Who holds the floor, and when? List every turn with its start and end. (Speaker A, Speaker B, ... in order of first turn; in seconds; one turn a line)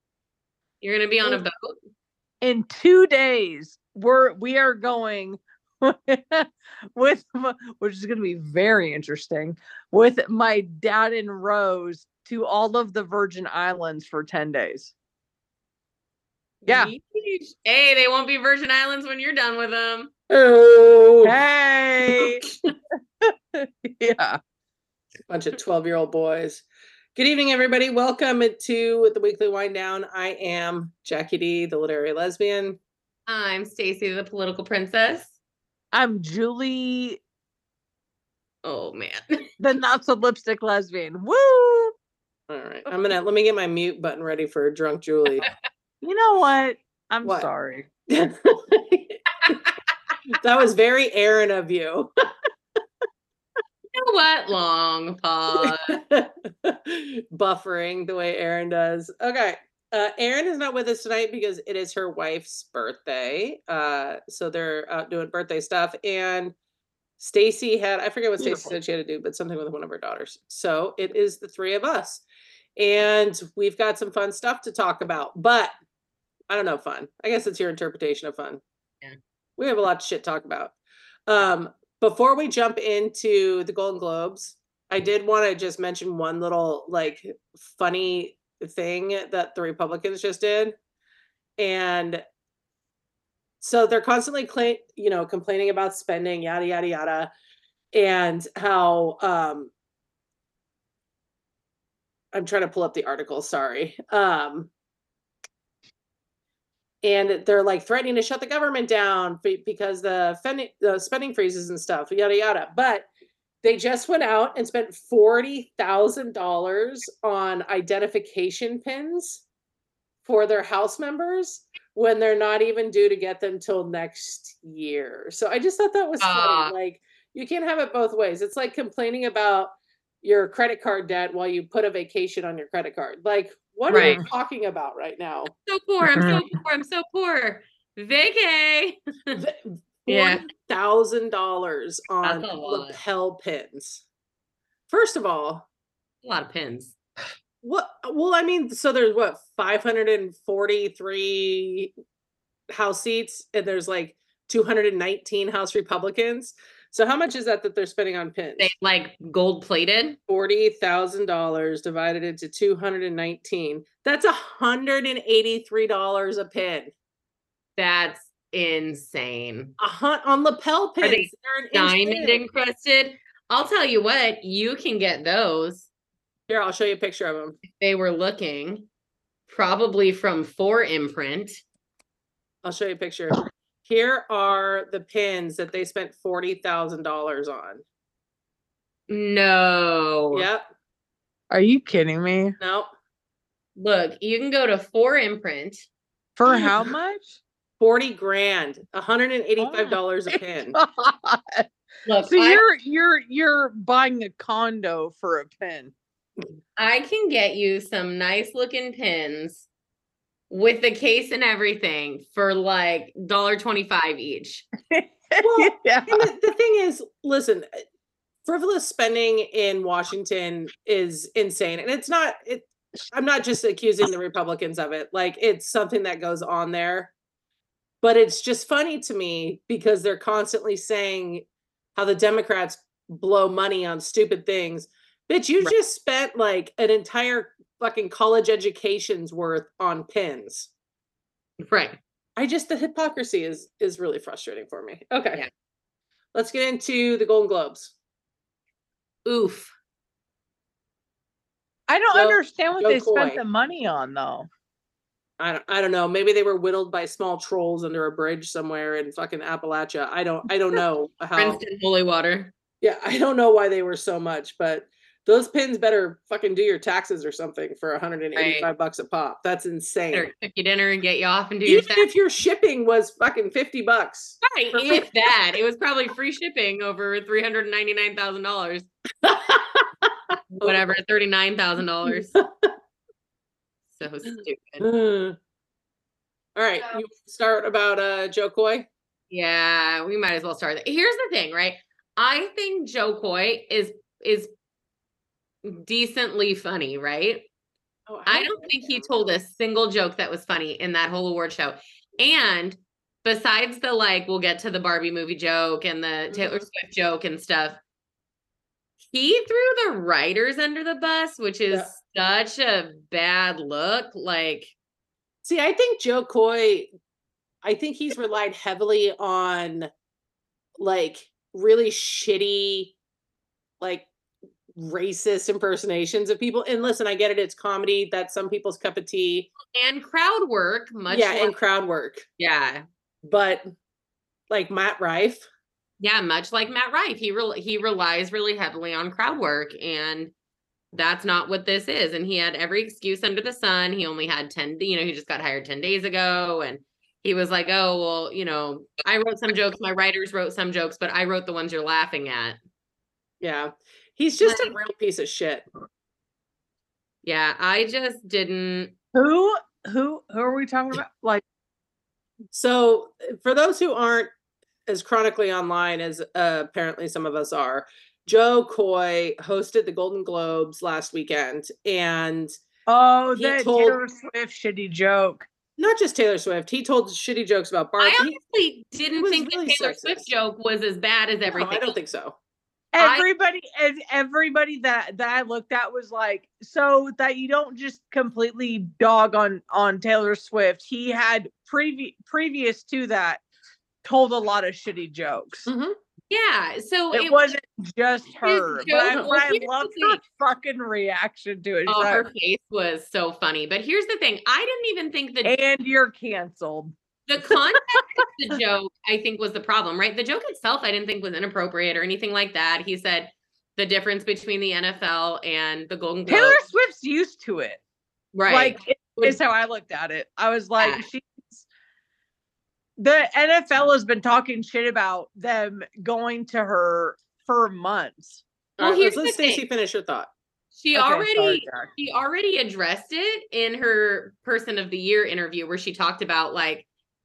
Speaker A: 0.8-1.8
Speaker B: 2.4-14.9
Speaker A: 16.6-20.1
Speaker C: 20.3-21.4
Speaker B: 21.2-22.4
Speaker C: 22.1-22.7
Speaker B: 23.2-24.4
Speaker C: 25.3-26.6
Speaker C: 27.1-32.8
Speaker A: 33.3-35.4
Speaker B: 35.9-37.2
Speaker A: 38.6-39.4
Speaker B: 39.6-41.9
Speaker C: 42.5-45.5
Speaker B: 46.0-47.9
Speaker C: 47.2-47.5
Speaker C: 48.1-49.5
Speaker C: 50.4-52.1
Speaker A: 54.0-56.0
Speaker C: 55.5-66.5
Speaker C: 67.2-72.2
Speaker C: 72.8-75.7
Speaker C: 76.5-78.6
Speaker C: 79.6-80.8
Speaker C: 81.3-90.8
Speaker C: 91.6-92.2
Speaker C: 93.6-97.3
Speaker C: 97.9-99.7
Speaker C: 102.3-104.7
Speaker C: 107.0-113.1
Speaker C: 113.6-119.4
Speaker C: 120.2-135.5
Speaker A: 126.2-126.7
Speaker A: 133.9-134.2
Speaker B: 133.9-134.2
Speaker A: 135.7-139.4
Speaker B: 136.2-136.4
Speaker C: 139.3-144.0
Speaker A: 140.1-140.4
Speaker A: 142.2-143.0
Speaker C: 144.9-145.7
Speaker A: 146.2-147.0
Speaker C: 147.6-151.9
Speaker C: 152.7-158.7
Speaker A: 158.6-160.2
Speaker C: 160.3-166.9
Speaker A: 167.8-169.7
Speaker C: 169.8-172.4
Speaker A: 171.0-175.9
Speaker C: 176.5-177.6
Speaker A: 177.6-178.9
Speaker A: 179.5-181.6
Speaker C: 182.6-187.8
Speaker A: 189.1-190.5
Speaker C: 190.3-190.7
Speaker B: 191.5-192.6
Speaker C: 192.6-192.9
Speaker A: 193.8-195.9
Speaker B: 196.4-197.4
Speaker C: 197.8-200.8
Speaker B: 199.6-201.7
Speaker A: 202.1-202.6
Speaker B: 202.3-205.9
Speaker A: 206.8-209.7
Speaker A: 210.5-214.7
Speaker B: 214.9-216.3
Speaker C: 215.4-217.8
Speaker C: 218.5-227.1
Speaker C: 228.0-240.7
Speaker A: 241.6-242.0
Speaker C: 242.4-245.4
Speaker C: 246.3-247.9
Speaker A: 249.2-249.7
Speaker B: 251.9-254.5
Speaker C: 252.1-253.4
Speaker C: 255.4-261.6
Speaker A: 261.4-262.5
Speaker C: 262.8-270.3
Speaker A: 268.4-268.7
Speaker A: 270.1-272.1
Speaker C: 271.7-275.1
Speaker A: 274.4-278.9
Speaker C: 279.2-280.1
Speaker A: 280.6-282.4
Speaker C: 282.1-282.7
Speaker A: 284.0-284.9
Speaker C: 284.8-285.4
Speaker C: 286.6-288.9
Speaker A: 289.3-294.5
Speaker A: 295.6-297.5
Speaker C: 298.1-299.3
Speaker A: 298.3-307.8
Speaker C: 306.3-306.7
Speaker A: 309.1-314.7
Speaker C: 315.4-316.9
Speaker C: 317.6-319.9
Speaker C: 320.8-322.9
Speaker C: 323.8-324.1
Speaker C: 324.8-329.5
Speaker A: 329.6-331.5
Speaker C: 331.1-332.3
Speaker A: 332.4-332.8
Speaker C: 333.2-333.7
Speaker C: 334.5-335.4
Speaker A: 336.0-340.3
Speaker A: 340.9-352.6
Speaker C: 353.4-355.6
Speaker A: 354.4-354.8
Speaker A: 357.2-358.9
Speaker B: 359.1-361.4
Speaker C: 362.5-364.3
Speaker C: 364.9-372.6
Speaker B: 372.9-375.5
Speaker C: 373.4-374.0
Speaker C: 375.8-378.4
Speaker A: 378.0-381.9
Speaker C: 379.2-380.3
Speaker C: 381.5-382.4
Speaker B: 382.9-393.4
Speaker A: 383.0-383.3
Speaker B: 394.0-395.7
Speaker C: 395.7-395.9
Speaker A: 396.3-397.5
Speaker B: 397.1-402.3
Speaker A: 398.4-400.2
Speaker A: 401.9-405.6
Speaker B: 405.4-406.9
Speaker A: 407.3-416.6
Speaker B: 407.5-408.2
Speaker B: 416.3-417.8
Speaker A: 418.3-419.4
Speaker B: 418.5-421.7
Speaker A: 420.8-421.1
Speaker B: 423.0-428.4
Speaker A: 428.8-429.6
Speaker C: 428.8-430.3
Speaker A: 430.8-436.9
Speaker B: 430.9-431.9